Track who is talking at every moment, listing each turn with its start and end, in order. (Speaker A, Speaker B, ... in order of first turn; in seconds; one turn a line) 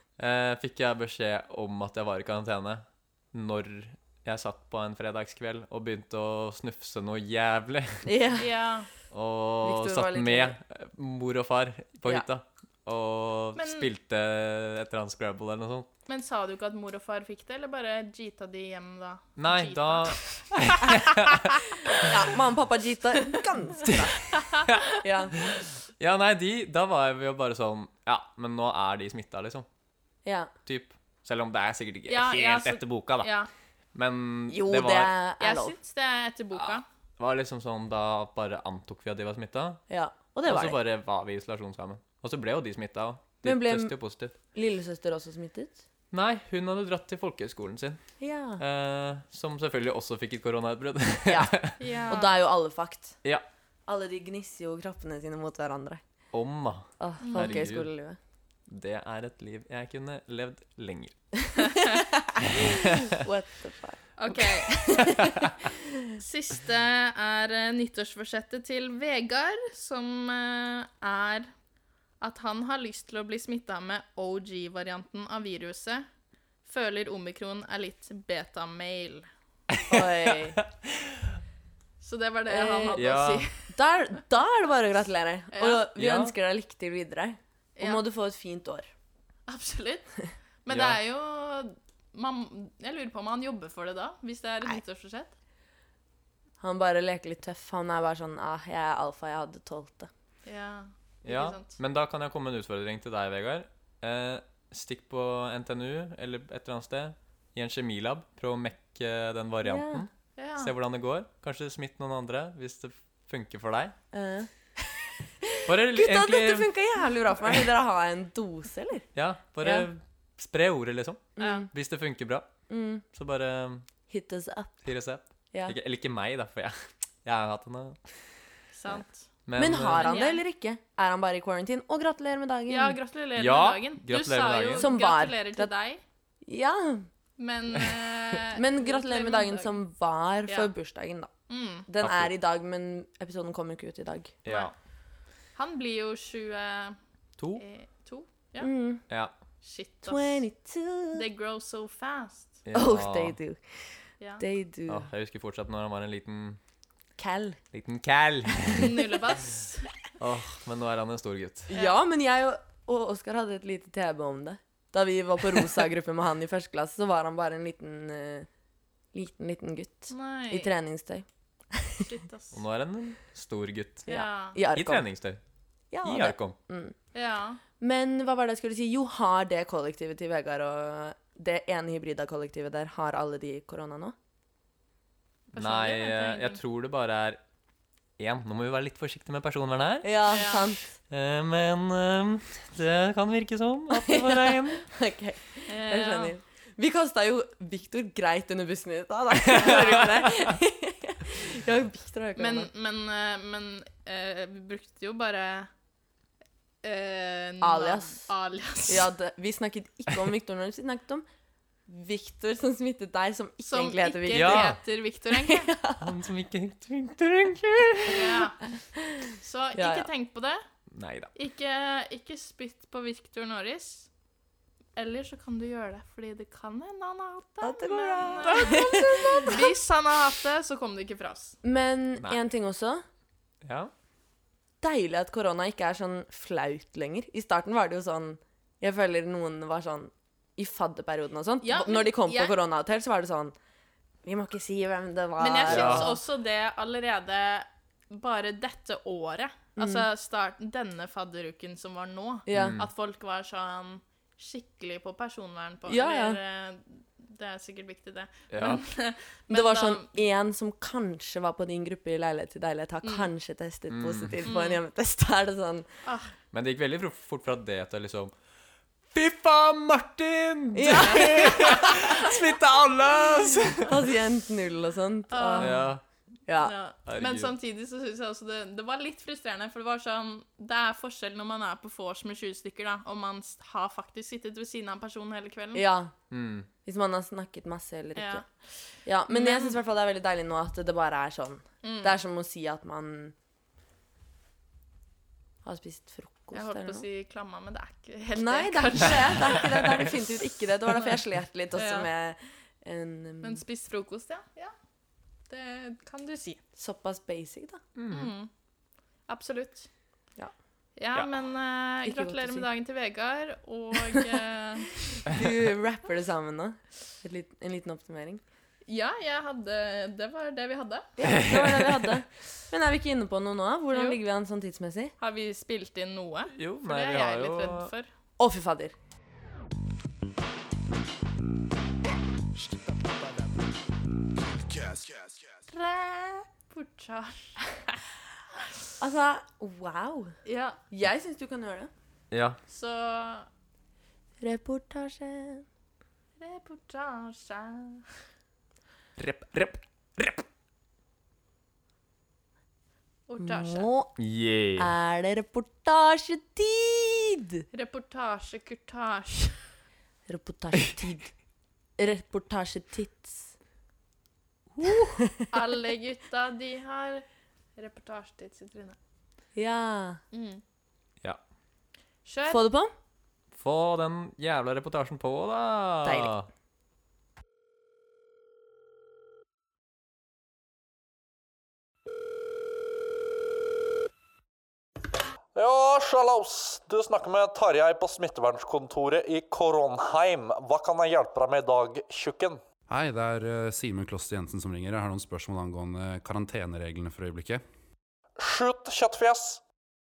Speaker A: 0.2-8.1
Speaker B: 8.0-8.5
Speaker C: 8.4-8.9
Speaker A: 9.1-15.9
Speaker B: 9.6-10.6
Speaker C: 13.6-13.9
Speaker C: 16.1-21.1
Speaker A: 19.4-22.1
Speaker B: 21.9-24.2
Speaker A: 23.8-29.7
Speaker C: 24.3-24.7
Speaker B: 25.0-25.4
Speaker B: 30.2-30.5
Speaker A: 30.7-33.3
Speaker C: 32.1-33.5
Speaker A: 34.0-35.1
Speaker B: 34.5-35.8
Speaker C: 35.4-36.9
Speaker A: 36.6-39.8
Speaker B: 39.9-40.8
Speaker A: 40.5-44.3
Speaker B: 43.4-43.9
Speaker B: 44.5-45.8
Speaker A: 46.1-48.0
Speaker B: 48.2-48.6
Speaker A: 48.6-51.8
Speaker B: 51.3-53.2
Speaker C: 51.8-52.3
Speaker B: 53.9-56.0
Speaker A: 56.3-57.9
Speaker B: 57.0-58.2
Speaker C: 57.2-57.6
Speaker A: 58.7-61.1
Speaker B: 61.6-66.1
Speaker C: 61.7-61.9
Speaker A: 62.6-62.9
Speaker C: 64.2-65.0
Speaker C: 66.2-71.5
Speaker C: 72.2-76.1
Speaker C: 76.7-79.3
Speaker A: 79.7-80.0
Speaker B: 79.9-80.6
Speaker A: 80.6-81.2
Speaker C: 82.0-83.7
Speaker B: 82.5-83.1
Speaker A: 82.9-83.5
Speaker B: 83.7-88.9
Speaker C: 85.5-85.8
Speaker A: 86.0-86.3
Speaker C: 87.8-88.0
Speaker C: 89.5-95.3
Speaker A: 90.7-91.0
Speaker B: 96.6-100.1
Speaker C: 100.5-101.8
Speaker A: 101.2-113.9
Speaker B: 109.7-110.1
Speaker C: 110.4-110.7
Speaker B: 114.1-119.1
Speaker A: 115.7-116.7
Speaker A: 119.2-122.5
Speaker B: 119.6-119.9
Speaker B: 121.4-121.7
Speaker C: 121.4-121.7
Speaker B: 122.7-123.0
Speaker A: 123.1-123.9
Speaker B: 124.1-124.9
Speaker A: 124.8-128.0
Speaker C: 128.7-129.3
Speaker A: 129.5-130.1
Speaker B: 129.6-133.0
Speaker C: 129.9-130.4
Speaker C: 132.7-136.0
Speaker A: 133.4-134.9
Speaker B: 134.8-135.7
Speaker B: 136.4-137.1
Speaker C: 137.4-139.8
Speaker B: 138.5-141.3
Speaker C: 140.5-140.7
Speaker C: 141.5-141.9
Speaker B: 141.9-144.4
Speaker A: 142.0-142.3
Speaker A: 144.4-144.7
Speaker C: 144.5-144.7
Speaker C: 145.6-147.0
Speaker A: 147.4-147.6
Speaker C: 147.6-148.7
Speaker B: 148.6-149.0
Speaker C: 149.6-150.4
Speaker B: 150.1-151.2
Speaker C: 151.1-152.6
Speaker A: 152.7-153.4
Speaker B: 152.7-153.6
Speaker B: 154.4-155.1
Speaker A: 154.9-156.6
Speaker B: 157.2-157.6
Speaker A: 157.7-158.9
Speaker C: 158.7-159.9
Speaker A: 160.2-161.7
Speaker B: 161.7-168.5
Speaker C: 161.7-162.0
Speaker B: 169.1-172.1
Speaker C: 170.1-170.7
Speaker C: 172.0-172.6
Speaker A: 172.5-174.1
Speaker B: 174.1-175.1
Speaker C: 174.1-174.6
Speaker A: 174.7-175.4
Speaker B: 175.9-176.9
Speaker A: 176.0-176.6
Speaker C: 177.1-177.6
Speaker B: 177.8-184.2
Speaker C: 185.5-186.6
Speaker A: 185.6-187.4
Speaker A: 188.2-190.2
Speaker B: 190.0-190.9
Speaker C: 190.3-190.7
Speaker A: 191.1-194.8
Speaker B: 193.9-202.7
Speaker C: 195.7-196.3
Speaker A: 199.4-200.3
Speaker C: 202.4-205.7
Speaker C: 206.8-209.1
Speaker B: 207.6-208.3
Speaker B: 208.9-211.2
Speaker B: 211.9-214.8
Speaker C: 213.7-215.7
Speaker A: 214.3-214.8
Speaker B: 215.3-216.1
Speaker A: 216.0-218.4
Speaker C: 218.1-218.6
Speaker C: 219.4-220.6
Speaker B: 219.8-220.1
Speaker A: 220.9-221.3
Speaker C: 221.3-224.1
Speaker C: 225.0-231.6
Speaker B: 227.6-229.7
Speaker B: 231.6-233.0
Speaker A: 233.7-233.9
Speaker B: 234.8-243.6
Speaker C: 241.6-242.6
Speaker B: 244.2-246.2
Speaker C: 245.4-260.1
Speaker A: 245.7-246.2
Speaker B: 249.8-250.1
Speaker B: 252.5-252.8
Speaker A: 252.5-252.9
Speaker B: 255.9-256.4
Speaker A: 258.5-258.8
Speaker B: 259.5-265.9
Speaker C: 263.0-263.3
Speaker A: 263.9-264.4
Speaker C: 264.4-264.8
Speaker C: 266.0-266.3
Speaker A: 266.5-268.3
Speaker A: 269.1-274.1
Speaker B: 270.7-272.3
Speaker C: 270.9-271.9
Speaker B: 273.8-275.9
Speaker C: 275.3-275.9
Speaker A: 275.6-276.0
Speaker B: 276.5-276.7
Speaker C: 276.6-285.8
Speaker A: 277.1-277.5
Speaker B: 285.8-286.1
Speaker A: 286.3-286.7
Speaker B: 286.9-288.4
Speaker C: 288.2-289.8
Speaker B: 289.1-293.4
Speaker C: 291.8-292.2
Speaker B: 295.6-297.1
Speaker C: 296.5-300.0
Speaker B: 298.4-303.6
Speaker C: 301.8-302.1
Speaker C: 303.4-304.7
Speaker C: 305.5-306.6
Speaker B: 306.8-307.8
Speaker A: 308.0-308.3
Speaker C: 308.1-308.5
Speaker C: 309.3-309.9
Speaker C: 311.0-315.3
Speaker B: 312.1-312.7
Speaker B: 315.3-318.4
Speaker C: 318.9-321.1
Speaker B: 321.2-325.1
Speaker A: 321.3-322.1
Speaker C: 323.9-324.2
Speaker C: 325.2-328.1
Speaker A: 326.6-327.9
Speaker B: 328.4-328.9
Speaker C: 335.7-338.0
Speaker B: 339.0-340.3
Speaker C: 340.4-340.8
Speaker B: 340.9-341.9
Speaker A: 342.3-342.6
Speaker C: 342.7-343.5
Speaker B: 344.4-345.7
Speaker C: 346.4-348.1
Speaker A: 349.2-350.4
Speaker C: 353.3-353.9
Speaker B: 353.4-354.1
Speaker A: 354.2-354.9
Speaker B: 354.8-357.6
Speaker C: 357.7-359.6
Speaker B: 360.3-361.3
Speaker B: 362.0-363.5
Speaker B: 365.2-365.4
Speaker C: 365.5-369.0
Speaker B: 369.6-370.2
Speaker C: 370.3-370.6
Speaker C: 372.2-372.7
Speaker B: 372.5-372.9
Speaker A: 373.6-376.5
Speaker B: 376.0-376.3
Speaker D: 385.6-392.6
Speaker E: 392.9-397.6
Speaker D: 398.4-399.6